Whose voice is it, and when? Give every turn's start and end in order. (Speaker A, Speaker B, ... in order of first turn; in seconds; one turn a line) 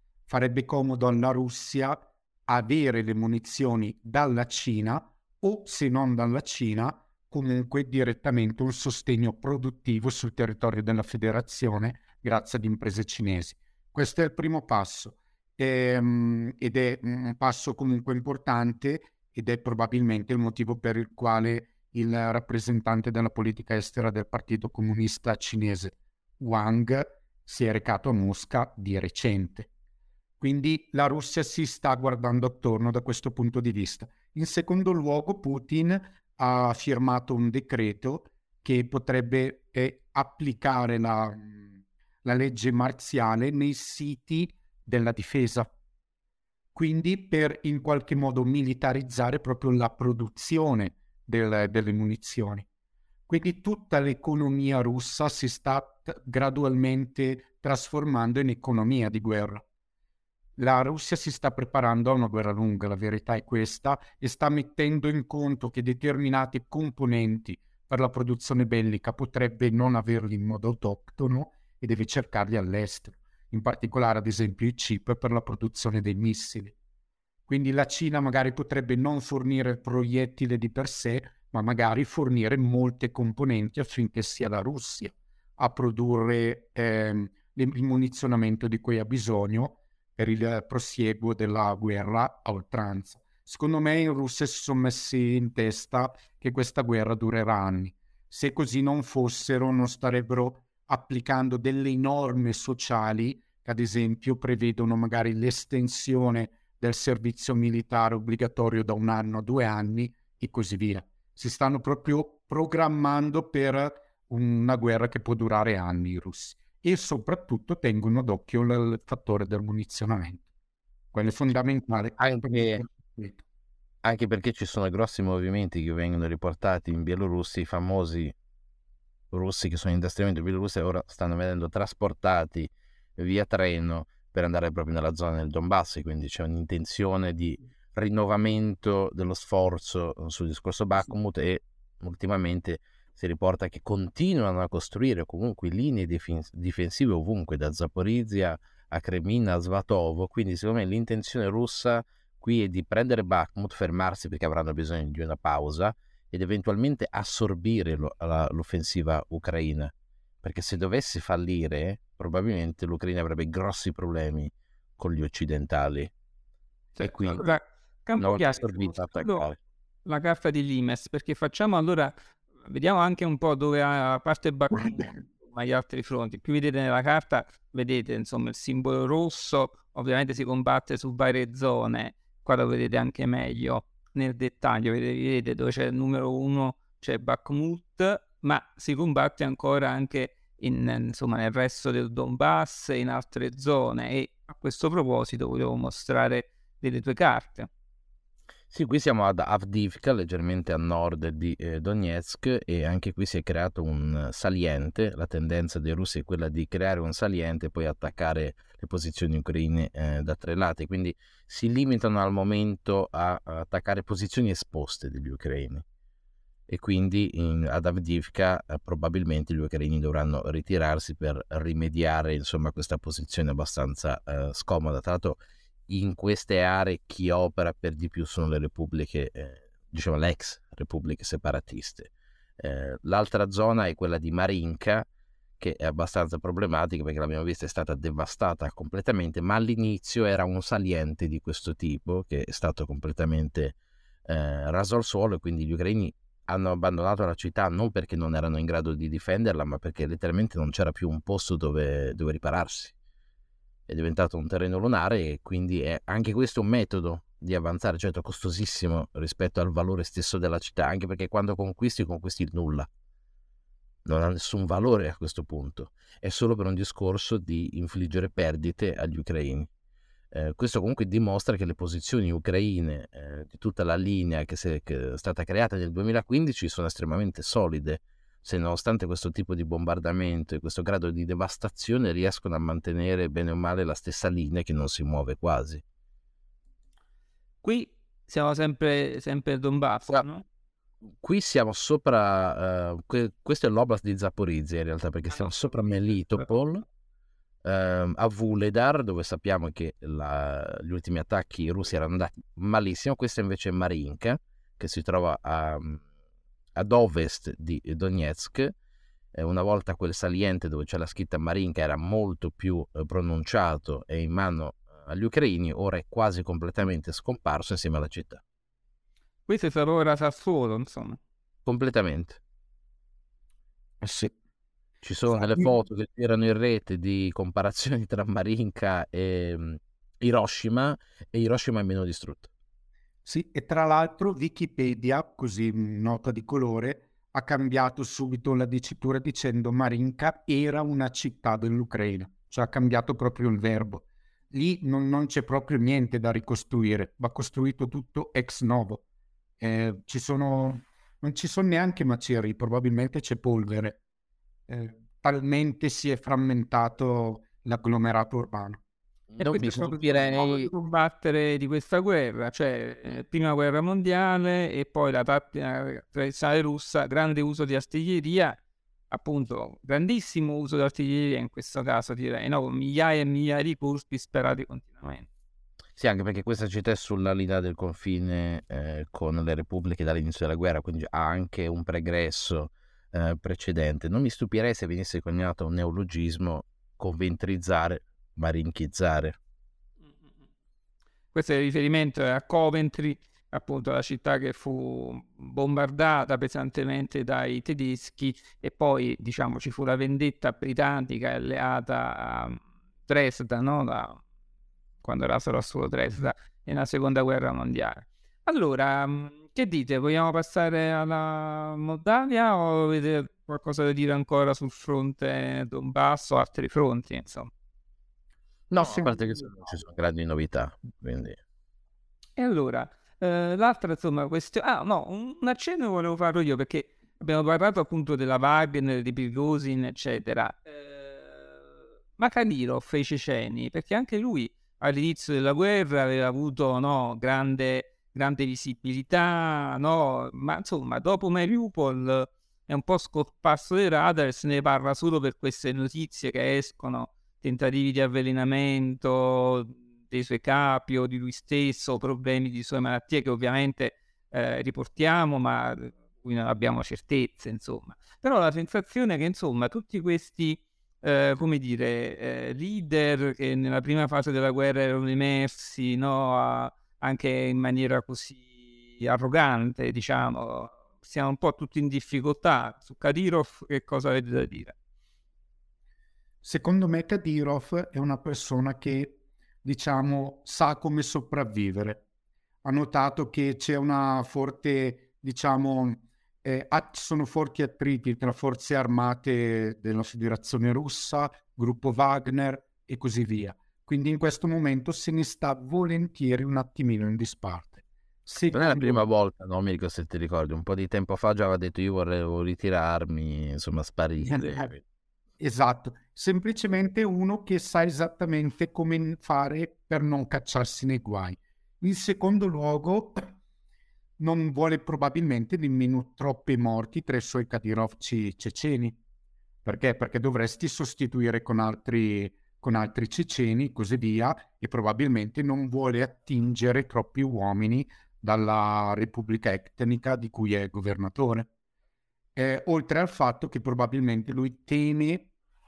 Speaker A: 0.3-29.7
Speaker A: 30.4-45.7
Speaker A: 46.7-52.7
Speaker A: 53.3-59.6
Speaker A: 60.6-76.7
Speaker A: 77.5-120.4
Speaker A: 121.1-123.4
Speaker B: 122.2-122.8
Speaker B: 124.0-128.3
Speaker B: 129.3-159.9
Speaker B: 160.4-166.1
Speaker C: 167.0-169.5
Speaker B: 167.0-167.5
Speaker B: 168.2-169.6
Speaker C: 170.1-172.1
Speaker C: 172.7-197.7
Speaker B: 198.7-215.8
Speaker B: 216.7-235.1
Speaker B: 235.6-252.9
Speaker B: 253.9-262.9
Speaker B: 264.1-269.7
Speaker B: 270.3-285.8
Speaker C: 287.6-290.4
Speaker B: 291.2-296.9
Speaker B: 297.6-306.0
Speaker B: 306.8-308.8
Speaker B: 309.3-318.4
Speaker C: 319.5-321.2
Speaker B: 321.7-322.4
Speaker A: 324.0-324.4
Speaker B: 325.0-332.5
Speaker A: 325.3-325.7
Speaker A: 333.2-349.0
Speaker A: 349.6-354.0
Speaker A: 354.7-358.8
Speaker B: 359.3-360.7
Speaker C: 359.4-368.6
Speaker C: 369.1-375.3
Speaker B: 376.0-389.4
Speaker C: 391.3-404.2
Speaker C: 405.0-417.5
Speaker B: 418.7-421.4
Speaker A: 418.8-419.5
Speaker C: 422.4-431.5
Speaker C: 432.2-474.8
Speaker A: 476.4-482.0
Speaker A: 482.6-499.0
Speaker B: 498.5-504.8
Speaker A: 504.2-504.7
Speaker A: 505.4-513.3
Speaker A: 514.2-519.0
Speaker A: 519.6-531.5
Speaker A: 532.4-535.3